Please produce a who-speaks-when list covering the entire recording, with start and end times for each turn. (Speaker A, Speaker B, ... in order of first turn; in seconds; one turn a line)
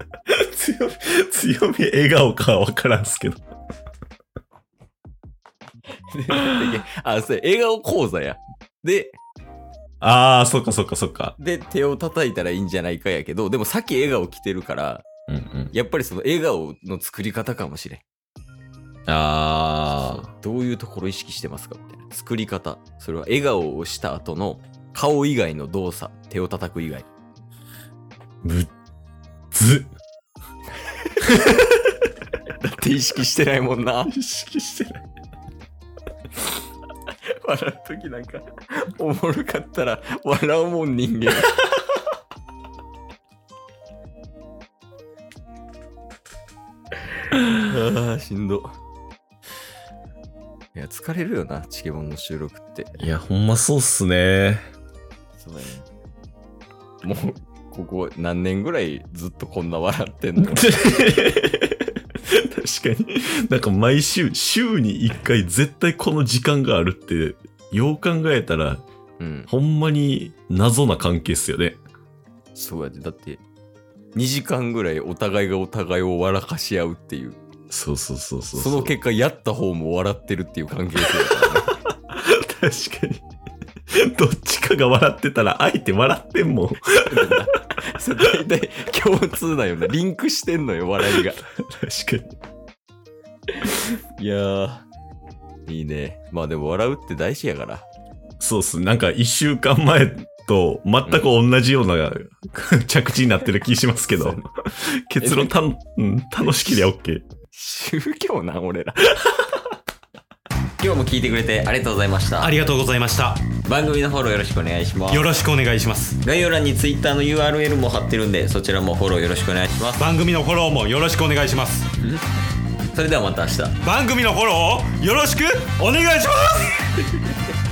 Speaker A: 0.3-3.4
Speaker B: 6.1-9.2
Speaker A: 10.0-11.3
Speaker B: 11.4-15.1
Speaker A: 15.3-15.7
Speaker B: 15.7-18.0
Speaker A: 19.1-20.3
Speaker B: 19.9-27.1
Speaker A: 28.4-28.7
Speaker A: 29.5-29.9
Speaker B: 31.0-31.3
Speaker B: 32.6-34.1
Speaker A: 34.1-35.0
Speaker B: 37.2-41.6
Speaker B: 47.5-48.7
Speaker B: 50.7-53.0
Speaker A: 53.0-54.6
Speaker B: 55.4-55.9
Speaker B: 57.0-60.7
Speaker A: 60.4-68.8
Speaker B: 69.2-69.5
Speaker A: 69.5-71.8
Speaker B: 72.5-73.4
Speaker B: 74.1-77.4
Speaker A: 77.7-78.9
Speaker B: 78.5-81.7
Speaker A: 82.1-83.2
Speaker A: 83.9-87.3
Speaker B: 87.0-91.4
Speaker A: 91.1-92.3
Speaker B: 93.6-94.9
Speaker B: 95.7-97.8
Speaker A: 98.4-107.2
Speaker B: 104.1-104.4
Speaker B: 105.2-105.5
Speaker B: 106.4-106.9
Speaker B: 107.5-109.4
Speaker B: 110.8-112.6
Speaker C: 112.4-113.5
Speaker B: 113.6-115.3
Speaker C: 115.1-116.2
Speaker B: 116.2-120.0
Speaker C: 120.0-121.9
Speaker B: 122.9-123.8
Speaker C: 123.8-126.9